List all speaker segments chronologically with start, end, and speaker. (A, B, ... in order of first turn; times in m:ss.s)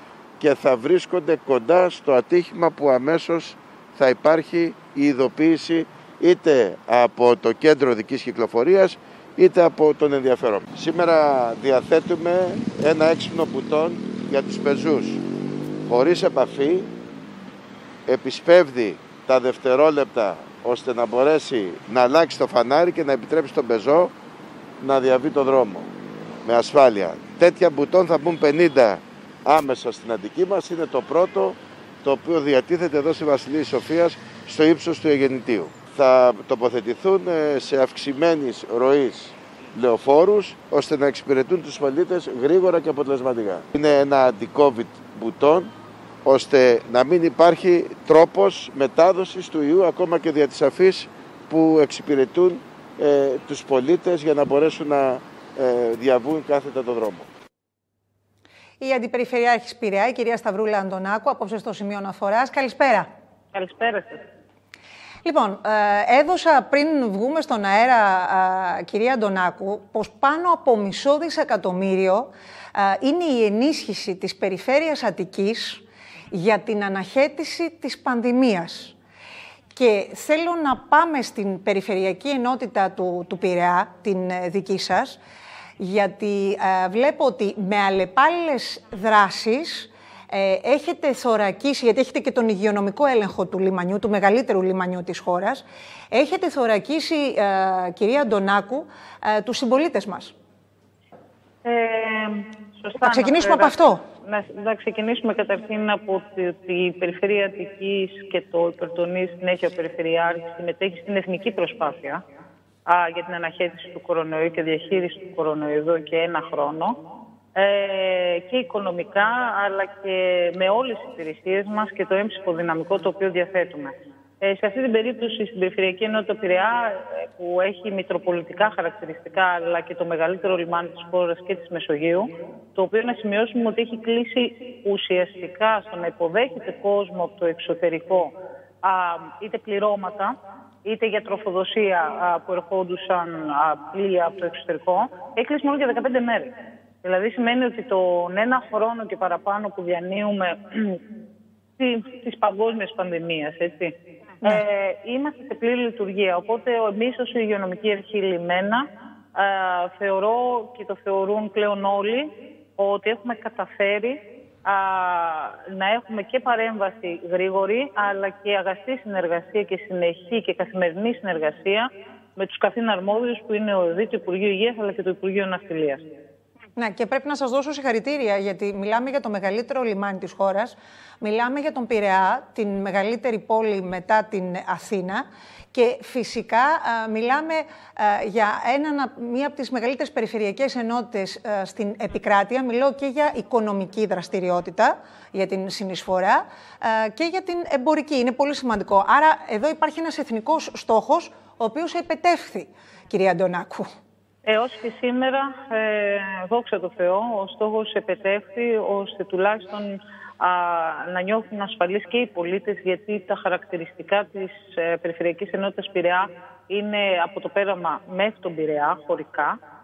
0:00.4-0:15.2 A
0:15.8-0:16.9 A
0:18.0-0:24.1 A
0:24.8-0:25.9 A
0:26.4-0:45.7 A
0:46.2-0:57.3 A
0:58.8-1:03.1 B
1:03.5-1:04.2 C
1:05.2-1:18.9 B
1:19.7-1:25.2 B
1:25.8-1:40.3 B
1:41.6-1:52.2 C
1:43.0-1:44.0 B
1:52.8-1:57.0 C
1:57.5-2:26.5 C
2:27.0-2:31.0 C
2:31.8-2:56.0 C
2:56.8-3:23.9 B
3:24.4-3:39.5 C